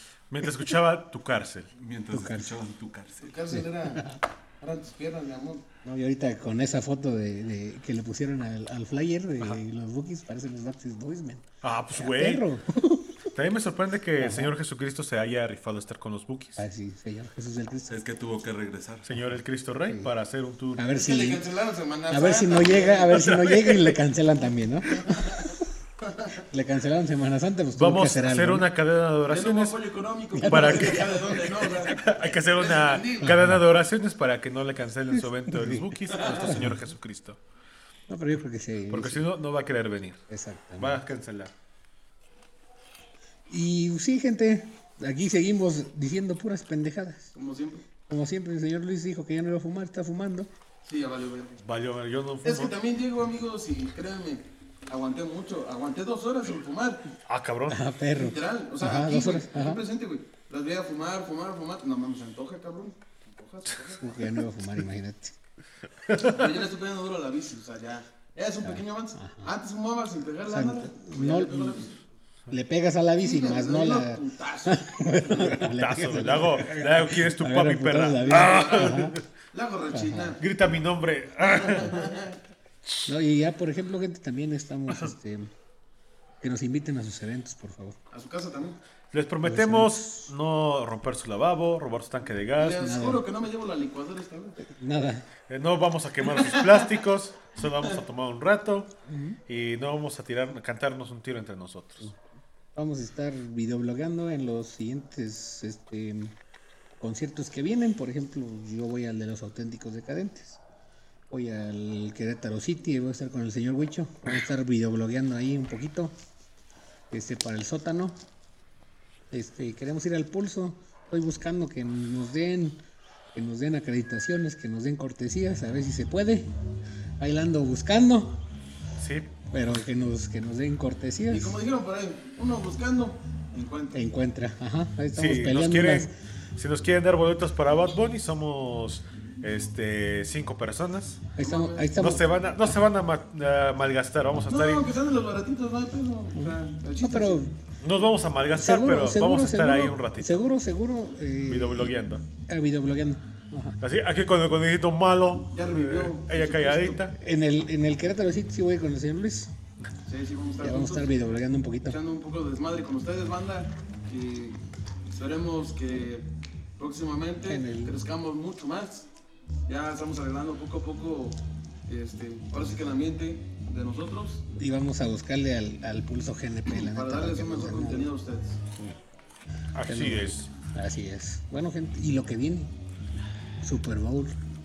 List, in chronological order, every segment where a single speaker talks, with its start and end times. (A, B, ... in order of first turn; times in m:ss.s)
0:00.3-0:01.7 A
0:01.8-0:03.3 B
0:02.1-0:02.6 C
0:03.2-0:05.6 D
0:03.5-0:04.2 C
0:05.8-0:13.3 C
0:11.6-0:12.4 A
0:13.3-0:16.6 A
0:14.2-0:14.5 C
0:16.6-0:18.0 C
0:17.9-0:19.1 B
0:19.0-0:20.8 A
0:20.7-0:21.4 C
0:20.9-0:23.2 D
0:22.1-0:25.2 C
0:23.1-0:24.0 A
0:25.1-0:25.5 D
0:26.0-0:26.4 D
0:26.5-0:28.7 C
0:27.8-0:29.8 A
0:29.3-0:33.3 D
0:30.3-0:31.3 C
0:30.4-0:37.4 A
0:33.2-0:33.6 C
0:35.2-0:36.8 C
0:38.1-0:39.2 C
0:38.9-0:40.2 A
0:40.3-0:41.0 C
0:40.8-0:41.5 A
0:43.5-0:47.3 C
0:47.3-0:47.8 D
0:48.1-0:50.5 C
0:50.8-0:51.6 D
0:51.6-0:52.7 A
0:52.4-0:57.1 D
0:57.3-0:57.8 A
0:57.7-0:59.8 C
0:58.1-1:04.3 D
1:04.0-1:05.3 C
1:06.1-1:06.4 A
1:06.2-1:12.0 D
1:08.6-1:09.5 C
1:10.5-1:11.8 C
1:12.5-1:19.2 C
1:13.2-1:15.5 D
1:15.6-1:19.2 A
1:18.2-1:20.4 D
1:19.9-1:20.4 C
1:20.4-1:22.1 A
1:21.5-1:22.4 D
1:23.1-1:25.5 C
1:26.4-1:28.0 C
1:28.1-1:28.8 D
1:29.1-1:32.9 A
1:29.4-1:30.3 C
1:32.6-1:34.6 D
1:32.8-1:33.2 C
1:34.6-1:35.3 C
1:35.5-1:38.9 A
1:36.3-1:36.9 D
1:39.1-1:39.4 C
1:39.5-1:42.1 A
1:42.7-1:46.3 C
1:47.0-1:50.6 C
1:51.3-1:56.1 C
1:57.1-1:58.2 C
1:59.3-2:02.8 C
2:03.3-2:06.5 C
2:07.2-2:08.4 C
2:09.0-2:09.3 A
2:09.5-2:11.6 C
2:11.3-2:14.0 D
2:13.9-2:16.1 C
2:15.1-2:21.2 A
2:21.4-2:22.8 C
2:21.4-2:21.9 D
2:22.0-2:24.9 A
2:24.5-2:27.4 D
2:26.3-2:27.5 C
2:27.8-2:30.4 A
2:28.5-2:33.8 C
2:31.5-2:32.2 A
2:33.8-2:37.1 A
2:35.5-2:37.0 D
2:37.2-2:39.5 C
2:40.1-2:41.1 D
2:40.6-2:42.0 C
2:41.8-2:44.6 D
2:45.1-2:49.1 D
2:47.4-2:48.0 C
2:49.7-2:54.4 D
2:52.5-2:52.9 C
2:54.6-2:58.1 C
2:56.7-2:58.6 D
2:59.7-3:00.5 A
2:59.8-3:02.7 C
3:03.6-3:04.4 C